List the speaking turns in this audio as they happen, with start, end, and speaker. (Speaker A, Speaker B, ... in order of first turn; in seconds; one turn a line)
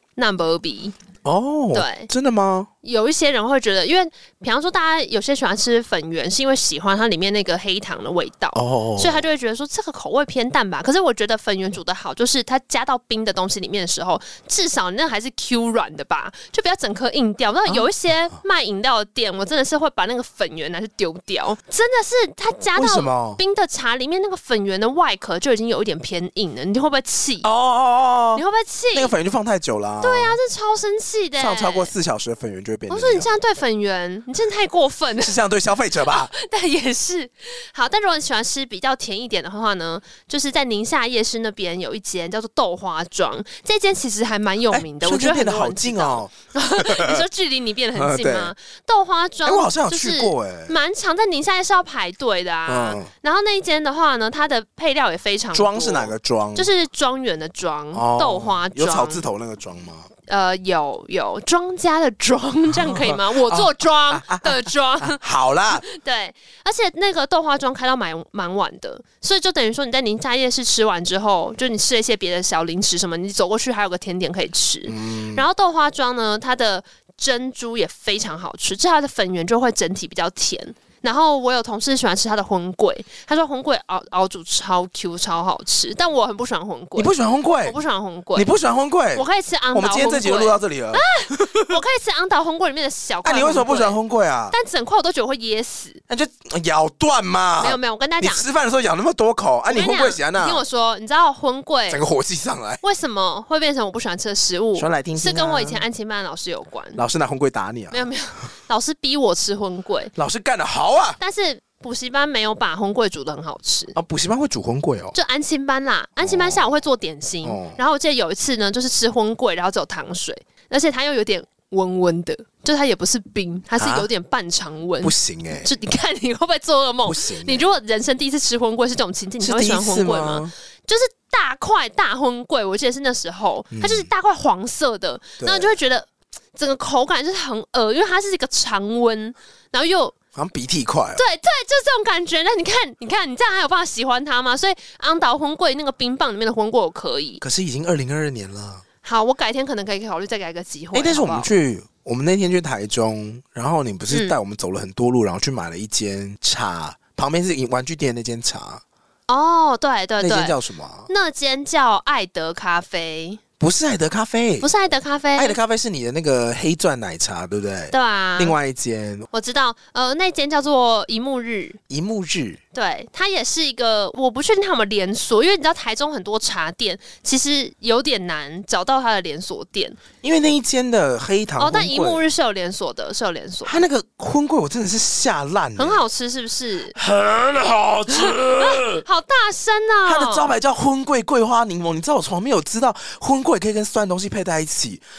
Speaker A: 0.1-0.9
Speaker B: 1.2-2.7
Speaker A: 1.7-2.1
Speaker A: 2.8-27.5
Speaker B: 8.5-9.2
Speaker B: 17.6-17.9
Speaker B: 22.7-23.4
Speaker B: 27.4-30.4
Speaker A: 28.4-29.1
Speaker A: 30.0-31.9
Speaker B: 31.4-33.3
Speaker A: 32.9-35.4
Speaker B: 35.2-36.3
Speaker A: 36.0-59.2
Speaker B: 44.7-47.2
Speaker B: 47.9-48.5
Speaker B: 49.4-50.8
Speaker B: 52.7-53.1
Speaker B: 55.5-56.7
Speaker B: 57.9-60.1
Speaker A: 60.3-65.2
Speaker B: 62.7-65.8
Speaker A: 65.8-87.1
Speaker B: 74.9-75.5
Speaker B: 86.9-87.8
Speaker A: 87.6-88.5
Speaker B: 88.3-91.7
Speaker A: 89.1-94.0
Speaker B: 93.2-94.5
Speaker A: 94.5-96.0
Speaker B: 96.1-100.6
Speaker A: 97.6-98.4
Speaker A: 99.7-102.0
Speaker B: 101.9-102.8
Speaker A: 102.8-107.0
Speaker B: 104.8-105.8
Speaker B: 107.0-108.1
Speaker A: 107.9-110.1
Speaker B: 110.1-111.2
Speaker A: 111.2-113.9
Speaker B: 113.9-115.2
Speaker A: 115.1-140.1
Speaker B: 116.2-116.7
Speaker B: 117.4-117.8
Speaker B: 123.8-124.1
Speaker B: 125.0-125.7
Speaker B: 127.0-127.7
Speaker B: 129.4-130.5
Speaker B: 133.7-134.1
Speaker B: 135.4-135.7
Speaker B: 140.3-141.2
Speaker A: 141.2-147.4
Speaker B: 147.4-148.8
Speaker A: 149.0-151.5
Speaker B: 150.9-158.8
Speaker A: 154.1-154.4
Speaker A: 159.3-160.6
Speaker B: 160.2-161.1
Speaker A: 161.1-163.4
Speaker B: 163.6-164.7
Speaker A: 164.6-165.6
Speaker B: 165.3-169.3
Speaker A: 167.9-168.6
Speaker A: 169.3-171.8
Speaker B: 171.9-172.6
Speaker A: 172.7-180.0
Speaker B: 180.2-182.2
Speaker A: 181.6-183.8
Speaker B: 183.6-186.0
Speaker A: 185.8-186.9
Speaker B: 186.9-189.0
Speaker A: 188.1-190.5
Speaker B: 190.0-195.0